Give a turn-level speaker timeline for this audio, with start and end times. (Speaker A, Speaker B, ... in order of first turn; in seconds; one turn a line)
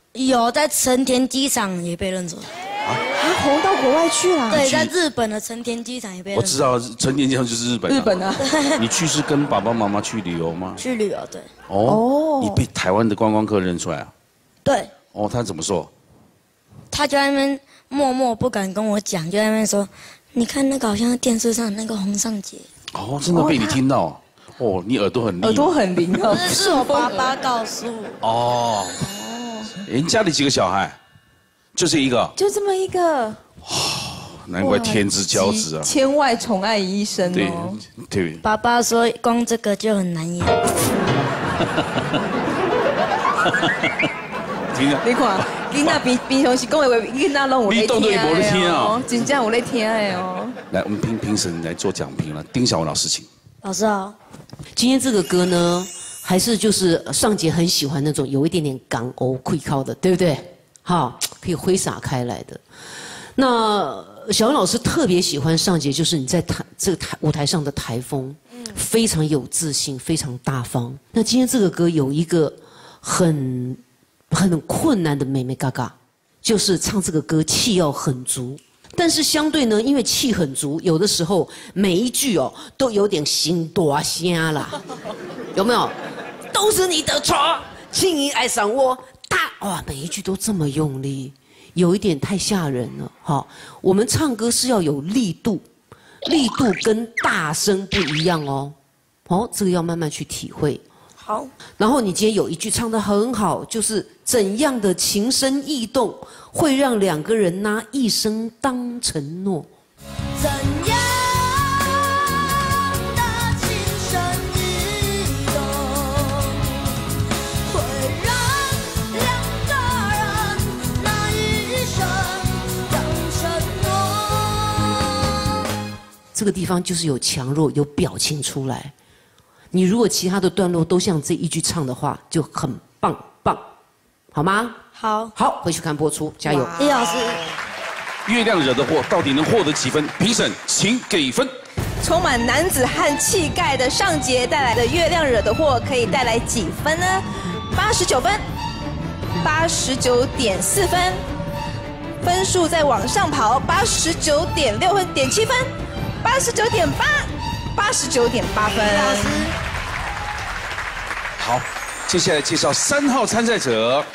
Speaker A: 0.1-2.5
Speaker B: 3.2-4.7
Speaker A: 4.5-6.6
Speaker C: 4.6-4.9
Speaker C: 6.3-8.1
Speaker B: 7.9-8.4
Speaker A: 8.4-8.8
Speaker C: 8.8-10.8
Speaker A: 10.8-11.5
Speaker C: 11.7-14.1
Speaker B: 11.8-12.7
Speaker A: 14.7-14.9
Speaker C: 15.1-15.9
Speaker A: 16.9-22.7
Speaker C: 22.9-25.8
Speaker B: 23.3-23.8
Speaker B: 25.4-27.3
Speaker A: 26.3-28.2
Speaker C: 28.2-29.0
Speaker B: 29.1-29.7
Speaker C: 29.9-31.0
Speaker C: 31.8-32.3
Speaker B: 32.4-33.4
Speaker C: 33.6-35.9
Speaker B: 34.6-37.8
Speaker C: 37.3-38.4
Speaker A: 38.4-40.6
Speaker C: 44.7-45.0
Speaker B: 44.9-50.6
Speaker C: 47.7-49.0
Speaker C: 50.7-53.3
Speaker A: 53.6-54.2
Speaker D: 54.8-62.6
Speaker D: 63.4-84.8
Speaker D: 85.5-85.9
Speaker D: 86.5-95.6
Speaker D: 96.3-98.8
Speaker D: 99.3-100.8
Speaker A: 101.2-101.5
Speaker D: 101.8-109.7
Speaker E: 110.4-125.4
Speaker A: 117.8-118.3
Speaker D: 126.3-128.9
Speaker D: 129.7-133.6
Speaker D: 134.3-134.8
Speaker A: 134.9-135.3
Speaker D: 135.3-136.8
Speaker B: 136.5-137.2
Speaker A: 136.8-137.4
Speaker C: 138.3-141.5
Speaker B: 142.0-148.4
Speaker B: 149.4-151.2
Speaker B: 152.2-155.7
Speaker B: 156.2-159.5
Speaker A: 158.8-159.5
Speaker C: 161.4-164.1